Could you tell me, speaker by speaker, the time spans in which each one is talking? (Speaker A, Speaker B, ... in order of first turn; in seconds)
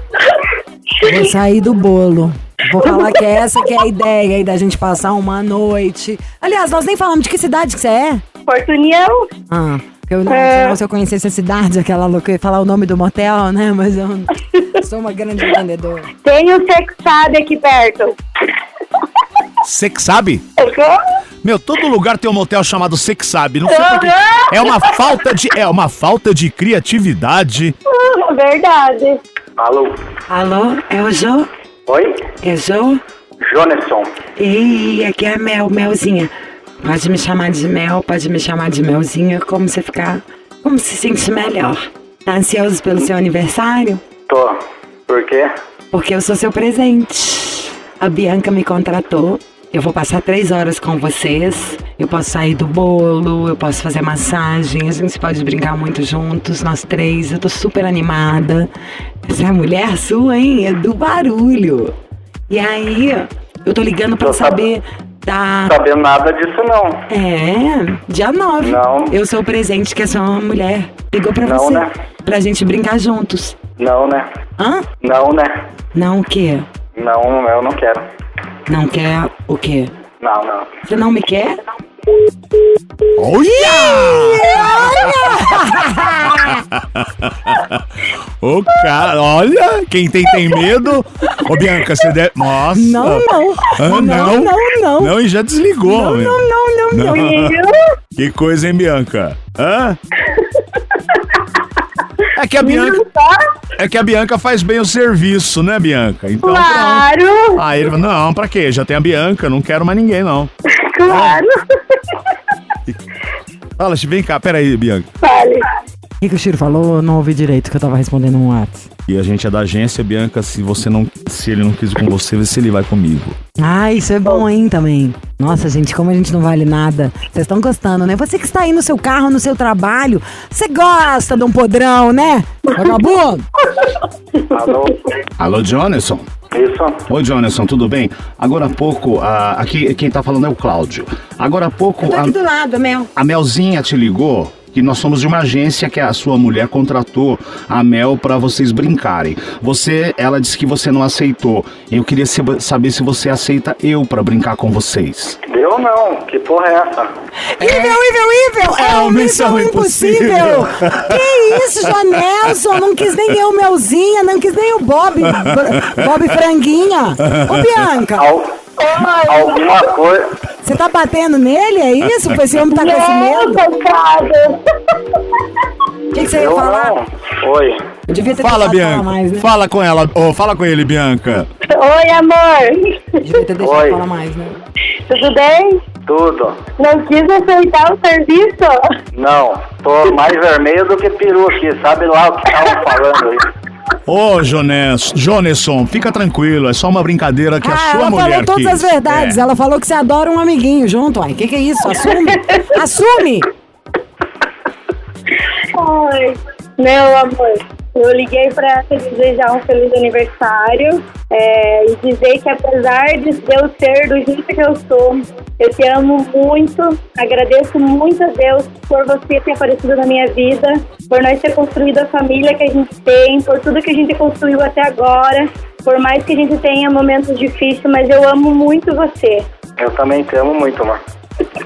Speaker A: 0.9-1.2, 8.5-9.3, 10.3-10.8, 16.2-18.2, 20.6-21.0, 23.7-24.8, 27.9-29.2, 97.1-97.8, 102.6-103.5, 106.4-107.6, 110.7-112.0, 115.2-115.7, 133.7-134.0, 168.8-169.9, 172.7-175.4, 181.7-183.2, 185.1-185.8, 186.8-188.8, 205.7-229.5
Speaker B: 1.0-8.2, 9.5-16.1, 30.3-31.5, 32.4-33.0, 34.4-36.3, 36.8-44.0, 45.9-58.7, 59.2-61.9, 62.5-65.8, 67.1-73.6, 74.6-74.9, 76.0-76.7, 78.7-79.9, 80.8-81.6, 83.5-86.7, 92.8-95.1, 95.9-97.4, 116.2-118.9, 123.6-133.5, 142.0-143.1, 157.6-168.3, 170.6-173.6, 176.1-177.0, 178.1-179.5, 183.2-184.6, 197.6-203.5
Speaker C: 19.6-20.4, 21.4-27.8, 83.2-85.2, 86.4-87.8, 88.4-97.6, 98.2-100.0, 102.3-103.0, 103.8-110.5, 111.1-111.4, 113.8-115.1, 119.1-123.4, 135.4-136.3, 137.1-142.3, 143.2-155.4, 157.6-158.0, 158.8-161.1, 167.3-167.6, 178.3-181.5, 194.1-199.4
Speaker D: 29.6-30.0, 31.9-32.3, 33.4-34.1, 44.3-45.5, 64.2-64.6, 65.7-67.0, 68.6-69.2, 71.4-71.9, 73.8-74.3, 75.0-75.6, 77.0-78.0, 80.2-80.8, 134.5-135.0, 136.5-137.0, 155.5-157.1, 168.2-168.6, 169.3-170.3, 176.2-177.8, 183.6-184.0, 186.1-186.6, 189.2-193.5, 229.8-231.0